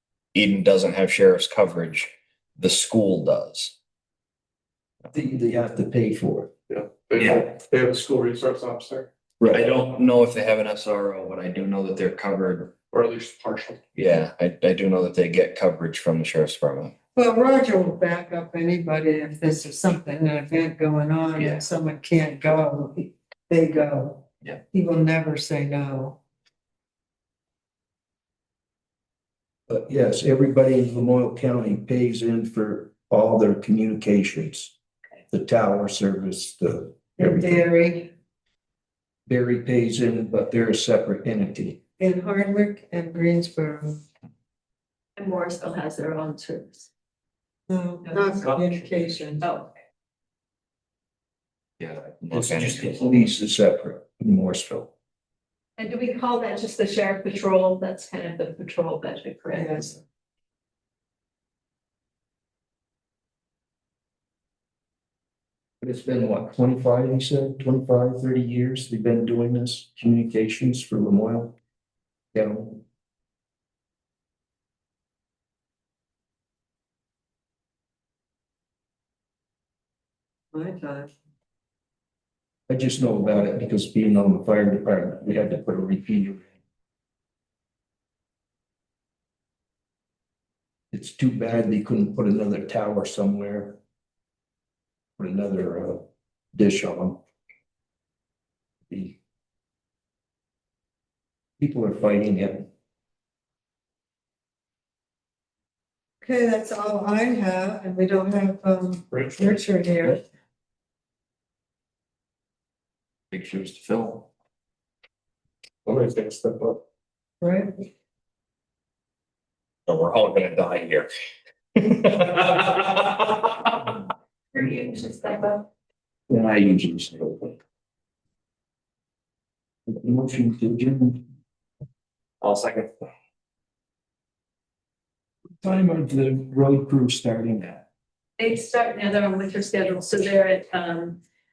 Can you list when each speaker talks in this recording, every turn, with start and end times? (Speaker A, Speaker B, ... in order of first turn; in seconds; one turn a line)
Speaker A: 0.3-3.7
Speaker B: 5.1-6.5
Speaker C: 6.7-9.1
Speaker A: 9.4-12.8
Speaker C: 12.9-13.8
Speaker A: 13.9-16.9
Speaker D: 17.1-26.2
Speaker B: 29.7-34.7
Speaker B: 35.3-37.6
Speaker D: 37.2-38.1
Speaker B: 39.3-41.8
Speaker D: 42.0-44.0
Speaker E: 45.2-46.9
Speaker D: 47.7-49.5
Speaker E: 48.0-48.5
Speaker E: 49.4-49.7
Speaker A: 51.8-53.2
Speaker B: 52.3-54.9
Speaker E: 55.8-60.0
Speaker D: 59.5-59.9
Speaker B: 65.8-71.6
Speaker B: 72.3-72.8
Speaker D: 80.5-81.1
Speaker B: 82.7-86.5
Speaker B: 90.9-93.8
Speaker B: 95.2-97.2
Speaker B: 98.9-99.2
Speaker B: 101.6-102.7
Speaker D: 106.2-110.2
Speaker C: 109.1-109.5
Speaker A: 113.3-114.3
Speaker C: 115.9-116.8
Speaker D: 117.4-117.7
Speaker A: 119.9-121.1
Speaker A: 121.8-123.5
Speaker E: 124.5-125.7
Speaker B: 126.3-127.5
Speaker B: 129.9-131.2
Speaker A: 132.4-132.9
Speaker B: 135.6-137.8
Speaker E: 138.4-141.2